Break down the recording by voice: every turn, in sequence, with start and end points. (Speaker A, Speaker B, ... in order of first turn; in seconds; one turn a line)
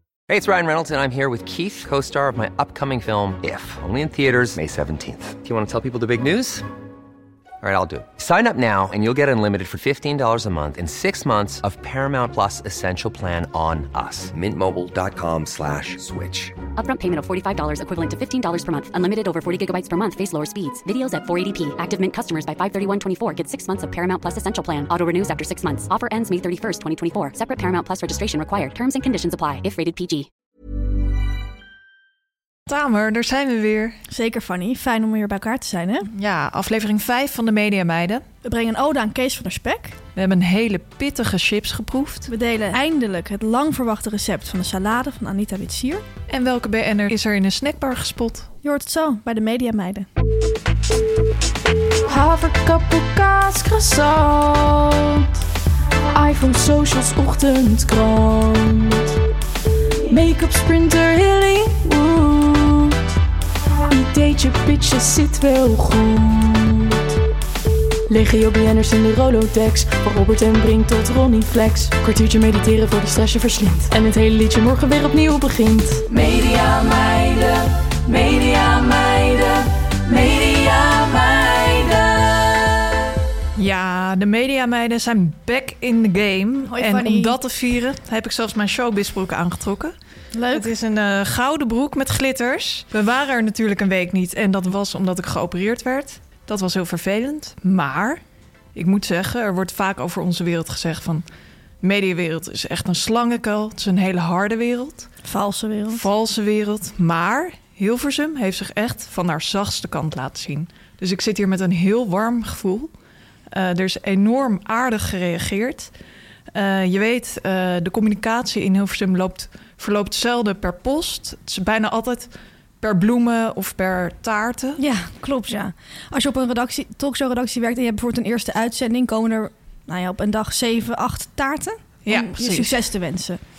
Speaker A: 0.3-6.7
Speaker A: 7.6-16.5
Speaker B: 16.8-30.3
Speaker C: 32.7-34.0
Speaker D: 34.1-36.1
Speaker C: 36.1-38.2
Speaker D: 38.4-40.0
Speaker C: 40.2-42.3
Speaker D: 42.3-46.0
Speaker C: 46.3-48.5
Speaker D: 48.6-50.1
Speaker E: 52.1-55.3
Speaker E: 56.1-59.1
Speaker E: 60.1-63.0
Speaker E: 63.9-67.1
Speaker E: 68.1-82.9
Speaker C: 83.6-90.0
Speaker D: 86.7-87.4
Speaker D: 90.3-90.7
Speaker C: 90.5-98.2
Speaker C: 98.8-101.2
Speaker C: 101.8-105.1
Speaker D: 105.2-106.0
Speaker C: 105.9-112.9
Speaker C: 113.5-115.9
Speaker C: 116.5-124.8
Speaker D: 124.8-133.4
Speaker C: 132.1-132.8